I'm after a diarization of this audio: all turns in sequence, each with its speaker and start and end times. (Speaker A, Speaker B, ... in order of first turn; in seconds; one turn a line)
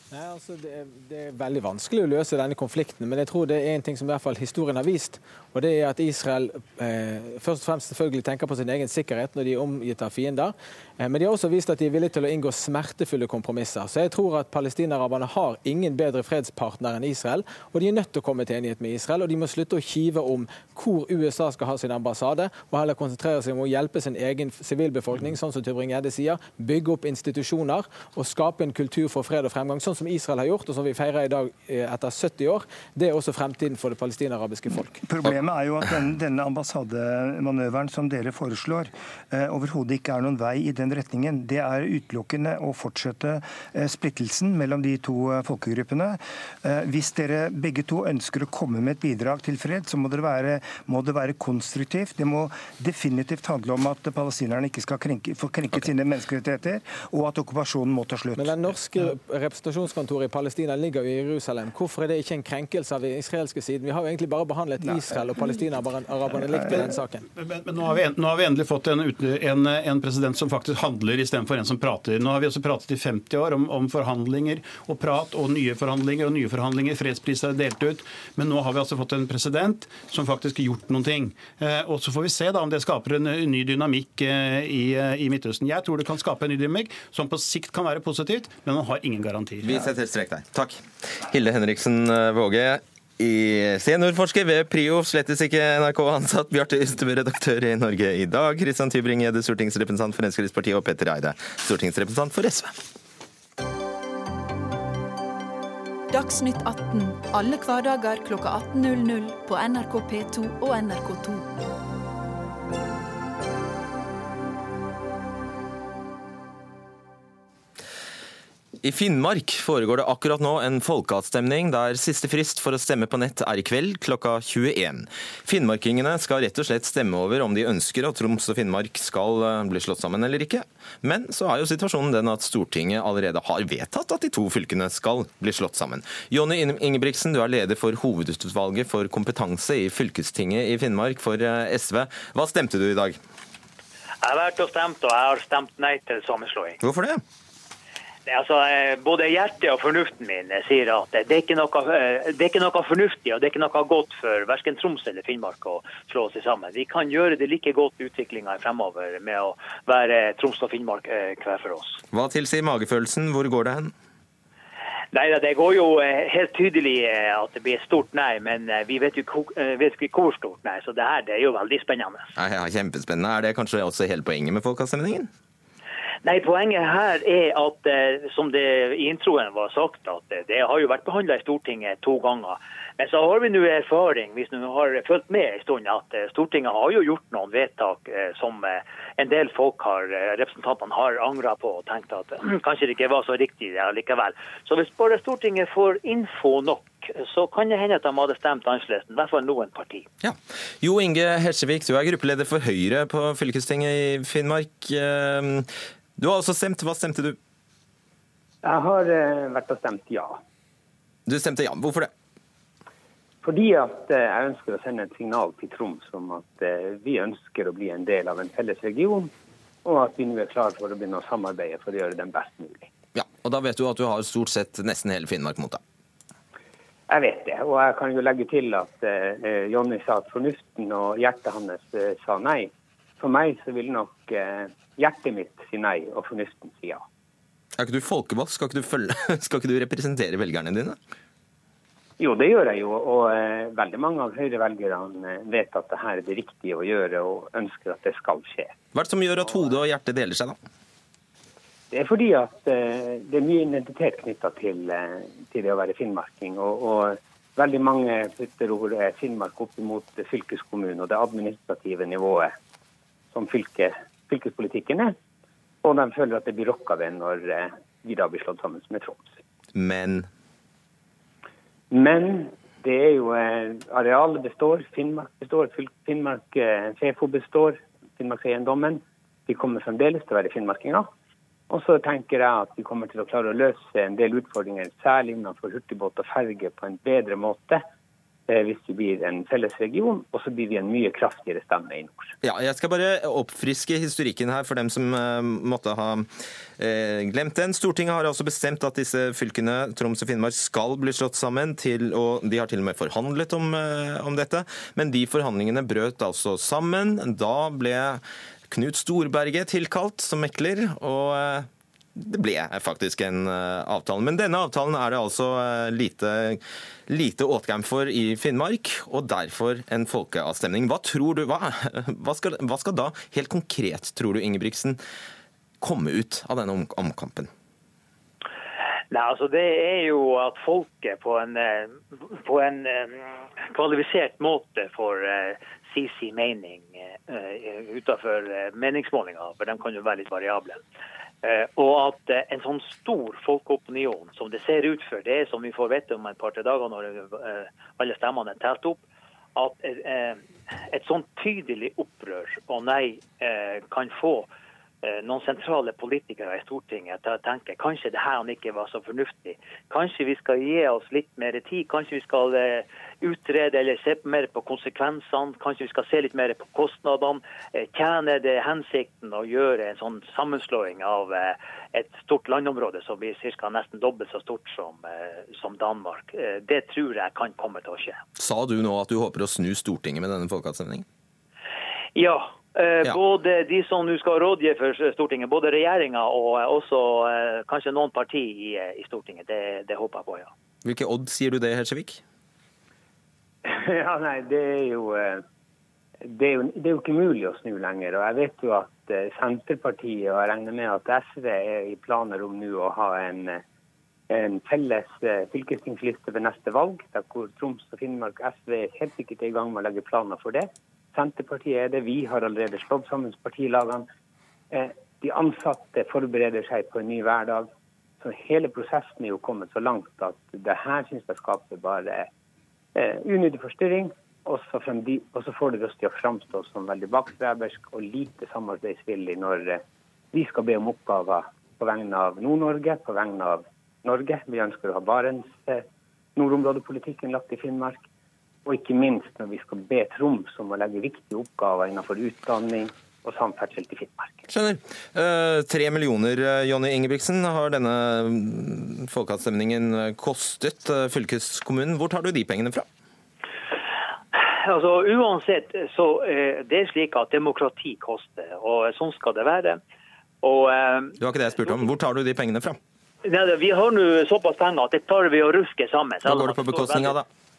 Speaker A: 0.1-35.0
Speaker B: 35.0-58.6
Speaker A: 58.4-67.2
Speaker B: 64.8-65.2
Speaker C: 67.4-89.9
Speaker D: 89.6-102.7
Speaker E: 106.1-111.5
Speaker D: 118.8-143.2
Speaker F: 144.2-146.8
Speaker D: 146.8-147.2
Speaker F: 148.2-162.0
Speaker D: 162.1-163.9
Speaker F: 165.1-172.3
Speaker D: 172.4-175.3
Speaker F: 176.2-200.1
Speaker D: 200.2-207.4
Speaker G: 208.6-210.4
Speaker D: 211.2-212.1
Speaker G: 213.4-219.3
Speaker G: 219.8-222.9
Speaker D: 223.1-225.8
Speaker G: 227.1-237.0
Speaker D: 237.8-241.0
Speaker G: 242.2-248.7
Speaker D: 248.9-250.6
Speaker G: 251.9-262.5
Speaker G: 263.3-265.1
Speaker G: 265.8-269.4
Speaker D: 269.7-270.3
Speaker G: 271.9-281.1
Speaker G: 281.7-287.8
Speaker G: 288.5-292.3
Speaker D: 292.4-296.3
Speaker D: 296.8-325.0
Speaker D: 325.8-327.5
Speaker F: 329.1-340.8
Speaker F: 341.4-349.0
Speaker F: 349.6-354.5
Speaker F: 355.0-378.2
Speaker D: 378.4-381.0
Speaker F: 382.1-390.5
Speaker D: 390.8-392.2
Speaker G: 393.6-395.4
Speaker G: 396.2-403.6
Speaker G: 404.3-414.1
Speaker G: 414.7-417.7
Speaker G: 418.2-422.3
Speaker G: 422.9-429.8
Speaker G: 430.3-435.8
Speaker G: 436.4-438.0
Speaker G: 438.6-444.4
Speaker D: 444.5-452.9
Speaker F: 454.4-459.8
Speaker F: 460.4-461.9
Speaker D: 461.2-462.8
Speaker F: 463.2-467.2
Speaker D: 466.2-467.2